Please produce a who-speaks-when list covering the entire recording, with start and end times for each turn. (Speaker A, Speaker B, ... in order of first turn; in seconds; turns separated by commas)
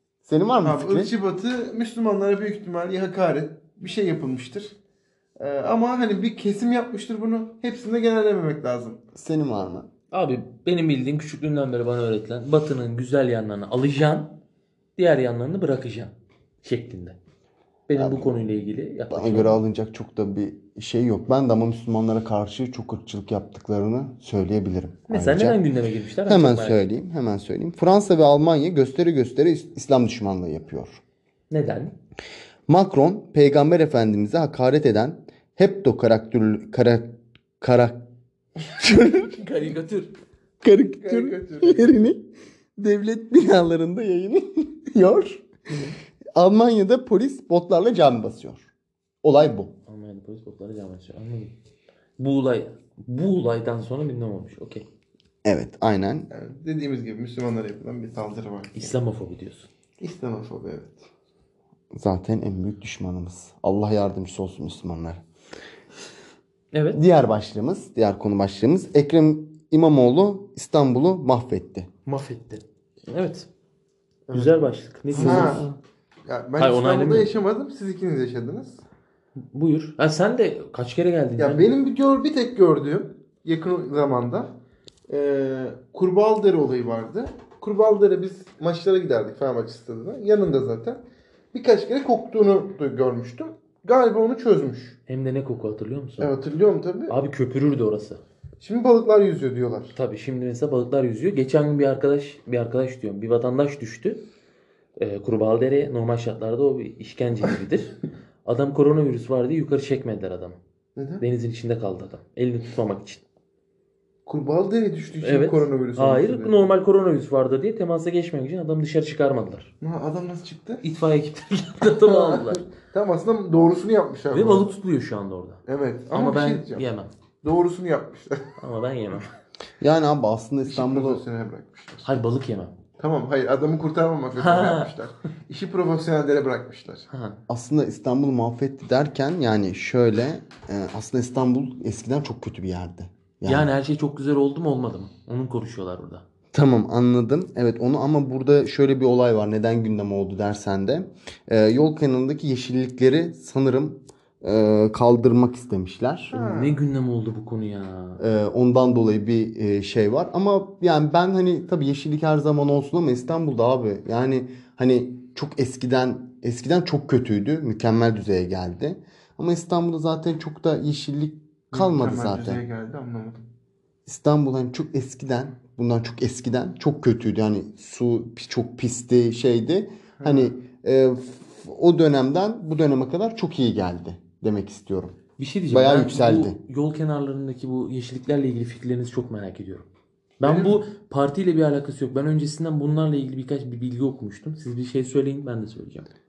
Speaker A: 0.2-1.1, Speaker B: 0.6-4.7, Speaker B: 5.4-9.0, Speaker A: 9.2-9.9, Speaker C: 10.1-14.4, Speaker C: 15.0-17.2, Speaker C: 17.9-19.6, Speaker A: 17.9-18.4, Speaker A: 19.1-25.6, Speaker C: 25.1-26.9, Speaker A: 26.3-31.0, Speaker C: 31.5-32.0, Speaker A: 32.7-38.0, Speaker A: 38.8-39.4, Speaker C: 39.3-40.1, Speaker A: 40.6-45.4, Speaker B: 41.0-42.0, Speaker C: 45.7-46.0, Speaker A: 46.4-48.7, Speaker A: 49.2-49.7, Speaker C: 49.9-51.5, Speaker C: 52.2-54.9, Speaker A: 55.5-56.3, Speaker B: 56.3-58.9, Speaker C: 58.7-59.7, Speaker B: 60.0-61.0, Speaker A: 61.9-65.2, Speaker C: 66.7-67.0, Speaker A: 67.0-71.9, Speaker C: 72.1-73.5, Speaker B: 74.3-75.7, Speaker C: 74.3-75.6, Speaker A: 75.1-75.8, Speaker B: 76.3-78.8, Speaker C: 76.6-77.3, Speaker C: 79.4-81.7, Speaker B: 81.4-84.5, Speaker B: 85.1-91.0, Speaker B: 91.5-95.0, Speaker C: 95.1-96.3, Speaker B: 96.2-97.2, Speaker C: 97.1-98.2, Speaker B: 98.6-100.0, Speaker C: 100.0-104.2, Speaker C: 105.0-110.6, Speaker B: 111.0-111.2, Speaker C: 111.2-113.2, Speaker B: 114.3-116.7, Speaker C: 115.2-119.7, Speaker B: 119.8-120.8, Speaker C: 120.8-122.6, Speaker B: 122.0-124.7, Speaker C: 124.3-127.1, Speaker B: 125.7-126.9, Speaker B: 127.4-128.5, Speaker C: 128.6-129.3, Speaker A: 129.8-131.2, Speaker B: 130.7-132.1, Speaker C: 132.0-132.8, Speaker B: 133.0-137.1, Speaker C: 134.3-134.9, Speaker C: 137.1-137.4, Speaker A: 137.5-143.7, Speaker C: 143.4-146.2, Speaker A: 146.5-156.3, Speaker B: 156.3-156.8, Speaker C: 156.3-158.2, Speaker A: 158.2-172.6, Speaker B: 171.7-173.4, Speaker A: 174.1-185.2, Speaker B: 180.2-180.5, Speaker C: 185.4-189.9, Speaker A: 185.7-186.6, Speaker C: 190.4-196.1, Speaker B: 190.4-190.8